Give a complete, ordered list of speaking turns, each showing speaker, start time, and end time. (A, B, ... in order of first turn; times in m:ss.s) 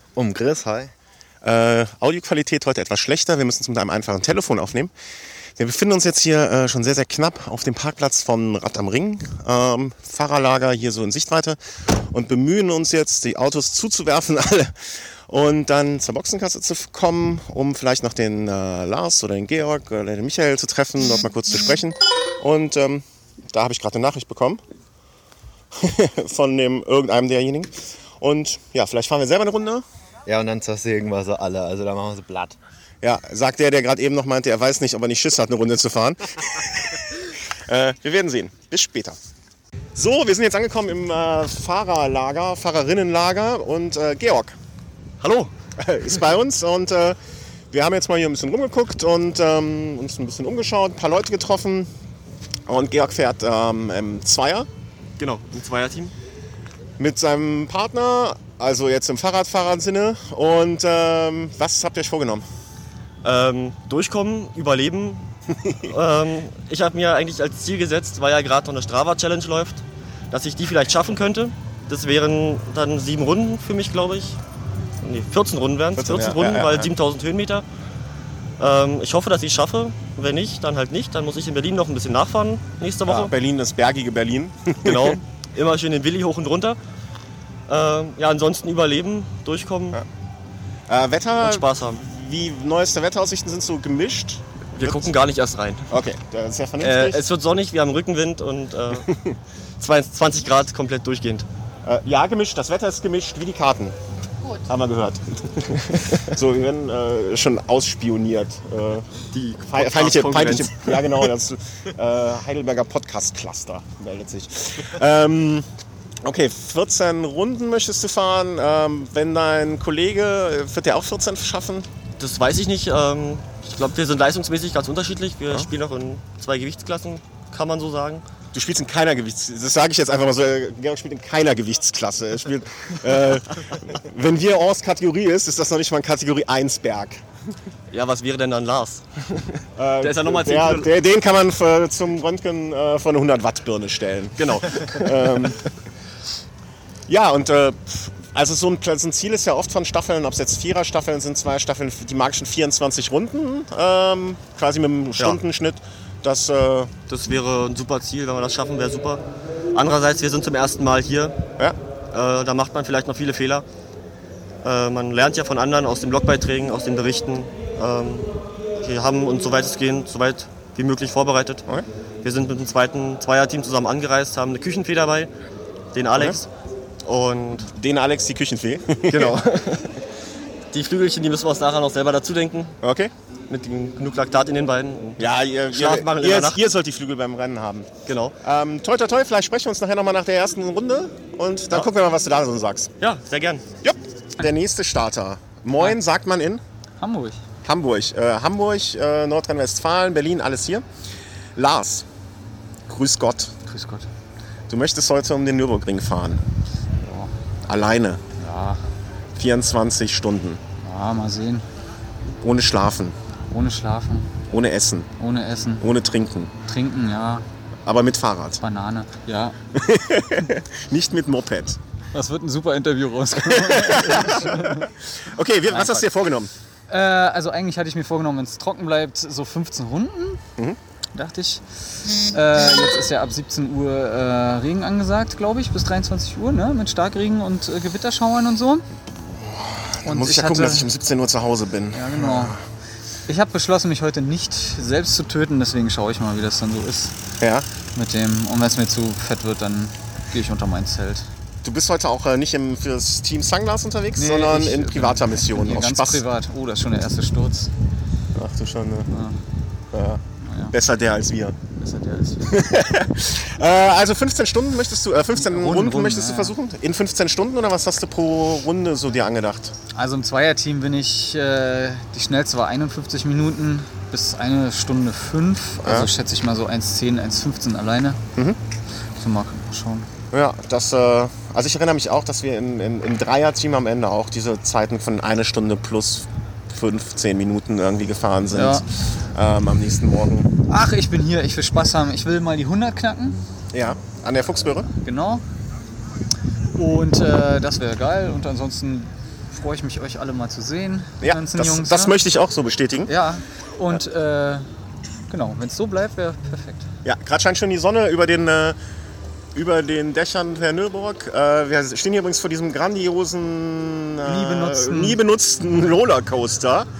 0:00.1-0:00.9 A
0:01.4-0:04.9 B
0:05.6-0:14.7 B
0:15.3-0:24.6 B
0:25.8-0:29.8 B
0:30.2-0:32.6 A
0:33.0-0:39.2 B
0:39.9-0:44.5 B
0:45.2-0:45.5 C
0:45.8-0:47.2 B
0:47.7-0:51.9 B
0:52.7-0:54.7 B
0:55.2-0:56.1 C
0:57.0-1:02.4 B
1:03.2-1:05.2 C
1:05.9-1:14.4 C
1:15.0-1:17.6 C
1:15.9-1:16.9 B
1:18.6-1:23.3 C
1:23.0-1:25.2 B
1:24.8-1:26.8 C
1:27.7-1:30.0 C
1:30.9-1:35.1 B
1:31.4-1:32.0 C
1:34.7-1:35.8 C
1:35.9-1:37.2 B
1:36.8-1:39.1 C
1:39.1-1:39.3 B
1:39.8-1:41.5 C
1:41.8-1:44.0 B
1:44.6-1:49.1 B
1:49.3-1:51.3 C
1:49.6-1:55.6 B
1:56.2-2:01.9 B
2:02.2-2:08.2 C
2:08.5-2:17.2 B
2:17.9-2:19.5 C
2:19.8-2:25.6 B
2:20.0-2:20.9 C
2:24.4-2:25.5 C
2:27.1-2:36.9 B
2:37.1-2:41.4 C
2:42.1-2:43.6 C
2:44.6-2:51.6 C
2:52.2-2:55.3 C
2:55.9-2:56.5 C
2:56.1-2:56.4 B
2:57.0-2:57.7 C
2:57.7-2:59.4 B
2:59.1-3:00.0 C
3:00.7-3:02.7 C
3:02.8-3:03.1 B
3:03.5-3:06.6 C
3:05.2-3:07.9 B
3:08.0-3:08.4 C
3:08.4-3:12.9 B
3:13.0-3:13.6 C
3:13.8-3:16.6 B
3:17.0-3:17.4 D
3:17.6-3:20.8 B
3:21.5-3:22.1 B
3:22.9-3:23.5 B
3:23.6-3:24.1 D
3:24.7-3:26.4 B
3:27.0-3:27.3 D
3:27.7-3:28.2 B
3:28.4-3:28.8 D
3:29.3-3:30.6 B
3:30.8-3:31.6 D
3:32.4-3:33.2 B
3:33.5-3:34.3 D
3:34.5-3:35.1 B
3:35.2-3:35.8 D
3:35.8-3:36.5 B
3:36.6-3:37.4 D
3:37.8-3:38.6 B
3:38.6-3:39.6 D
3:39.7-3:41.8 B
3:42.1-3:44.9 D
3:43.5-3:46.5 B
3:45.6-3:46.1 D
3:46.9-3:50.4 D
3:51.1-3:58.8 D
3:59.5-4:02.6 B
4:00.0-4:00.9 D
4:01.9-4:02.6 D
4:03.3-4:07.2 D
4:07.4-4:07.7 B
4:07.9-4:11.2 D
4:11.6-4:16.2 B
4:14.2-4:17.7 D
4:18.3-4:19.1 B
4:19.1-4:19.4 D
4:19.9-4:21.6 B
4:20.4-4:20.7 D
4:21.7-4:22.5 D
4:22.4-4:29.7 B
4:25.3-4:26.6 D
4:29.9-4:38.2 D
4:35.8-4:36.1 B
4:39.2-4:40.1 D
4:40.3-4:50.5 B
4:48.5-4:48.8 D
4:50.6-4:53.4 D
4:53.7-4:54.9 B
4:55.0-4:55.4 D
4:56.7-5:02.1 D
5:01.2-5:03.1 B
5:03.0-5:04.7 D
5:05.3-5:06.8 D
5:07.0-5:08.8 B
5:09.5-5:16.9 B
5:14.2-5:15.2 D